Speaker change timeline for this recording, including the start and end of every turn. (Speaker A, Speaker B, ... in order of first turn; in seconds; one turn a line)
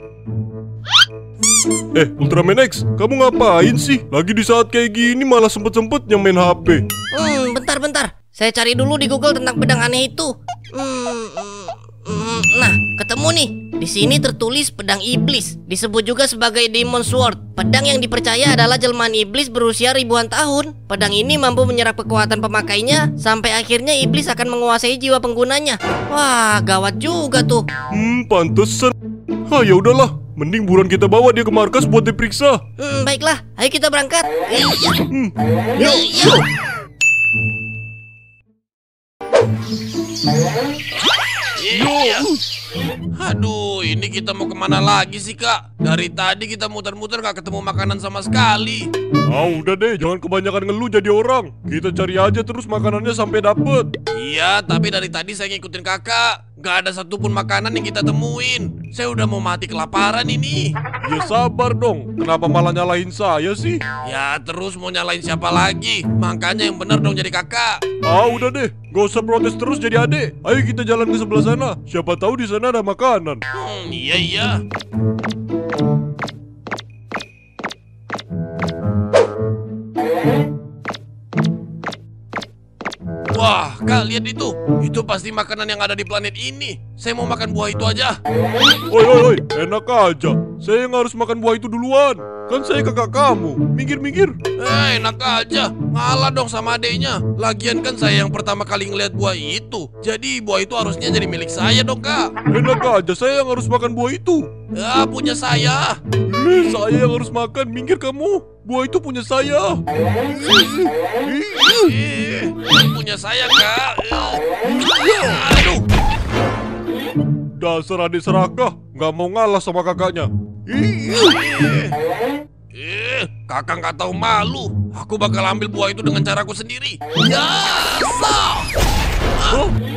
Speaker A: 1.9-6.8
Speaker B: 7.1-27.6
Speaker A: 27.9-28.9
Speaker A: 29.5-32.6
Speaker B: 32.8-35.0
Speaker B: 35.8-36.4
Speaker C: 41.6-42.3
Speaker A: 41.7-42.4
Speaker C: 43.2-48.9
Speaker A: 49.3-53.9
Speaker C: 54.1-60.7
Speaker A: 61.0-63.8
Speaker C: 64.0-67.8
Speaker A: 68.0-73.4
Speaker C: 73.5-74.6
Speaker C: 83.3-88.2
Speaker A: 88.9-94.4
Speaker C: 94.6-102.3
Speaker A: 102.5-104.5
Speaker C: 104.7-106.0
Speaker A: 106.3-109.8
Speaker A: 110.4-110.7
Speaker A: 111.3-111.7
Speaker C: 111.5-115.8
Speaker A: 117.6-120.8
Speaker C: 120.7-121.9
Speaker C: 122.7-128.7
Speaker A: 129.5-129.8